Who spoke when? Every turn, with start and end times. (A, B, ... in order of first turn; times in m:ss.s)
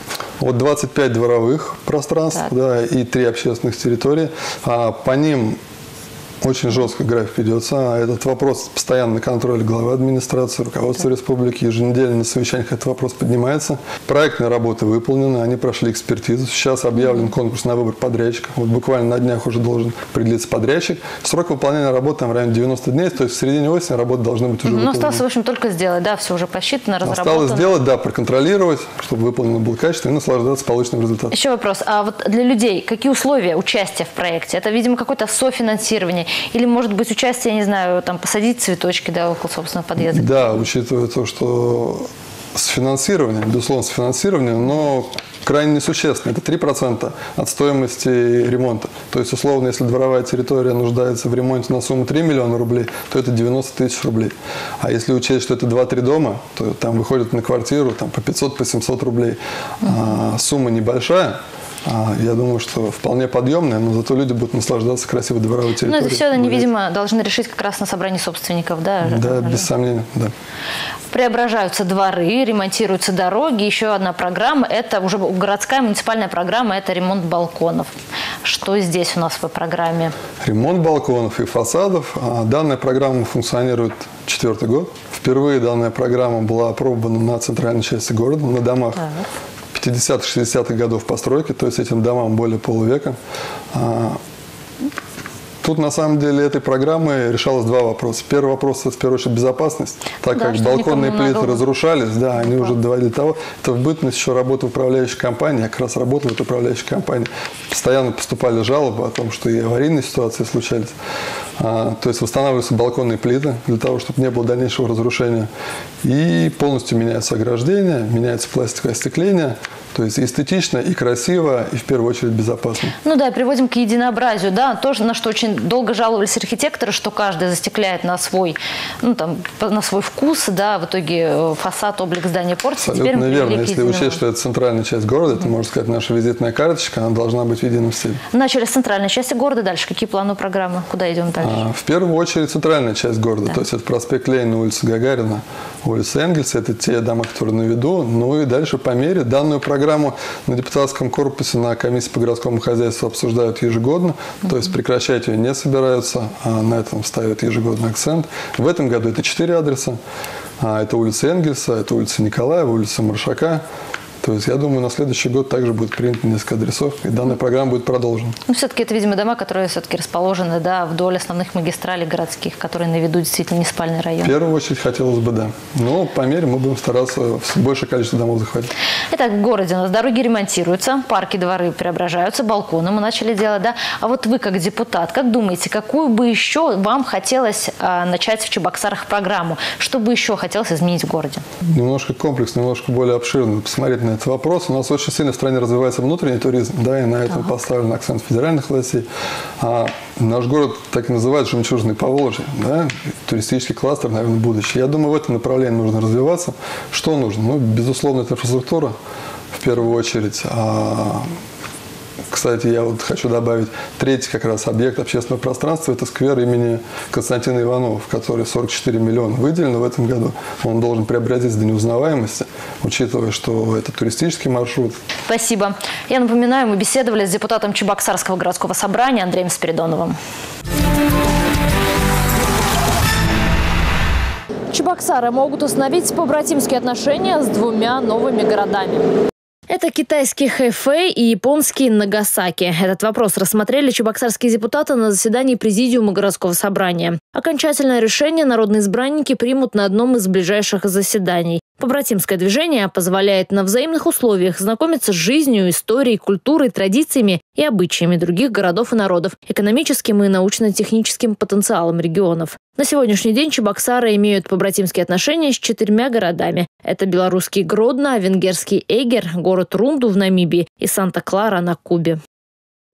0:00.4-0:05.6 A
0:06.4-0:25.2 A
0:24.8-0:27.8 B
0:27.0-0:31.3 A
0:31.3-0:40.4 B
0:40.0-1:06.7 A
1:05.9-1:09.6 B
1:09.0-1:10.3 A
1:11.1-1:20.1 B
1:20.4-1:29.1 A
1:29.7-1:33.2 A
1:33.7-1:34.2 A
1:35.6-1:50.9 A
1:40.3-1:40.8 C
1:40.9-1:41.4 B
1:51.6-1:55.5 A
1:56.0-2:03.0 A
2:03.0-2:14.0 B
2:03.4-2:04.7 C
2:07.4-2:08.1 C
2:10.6-2:11.1 C
2:11.9-2:12.5 C
2:12.8-2:18.2 A
2:18.3-2:21.6 B
2:19.1-2:20.7 C
2:21.4-2:40.0 A
2:40.6-2:43.6 A
2:44.2-2:48.4 A
2:48.5-2:54.3 B
2:54.2-2:58.7 A
2:59.1-3:11.4 B
3:11.7-3:19.1 A
3:19.6-3:28.9 A
3:29.5-3:31.3 A
3:32.3-3:45.0 A
3:45.3-3:50.1 B
3:54.7-3:59.1 C
3:59.7-4:32.2 C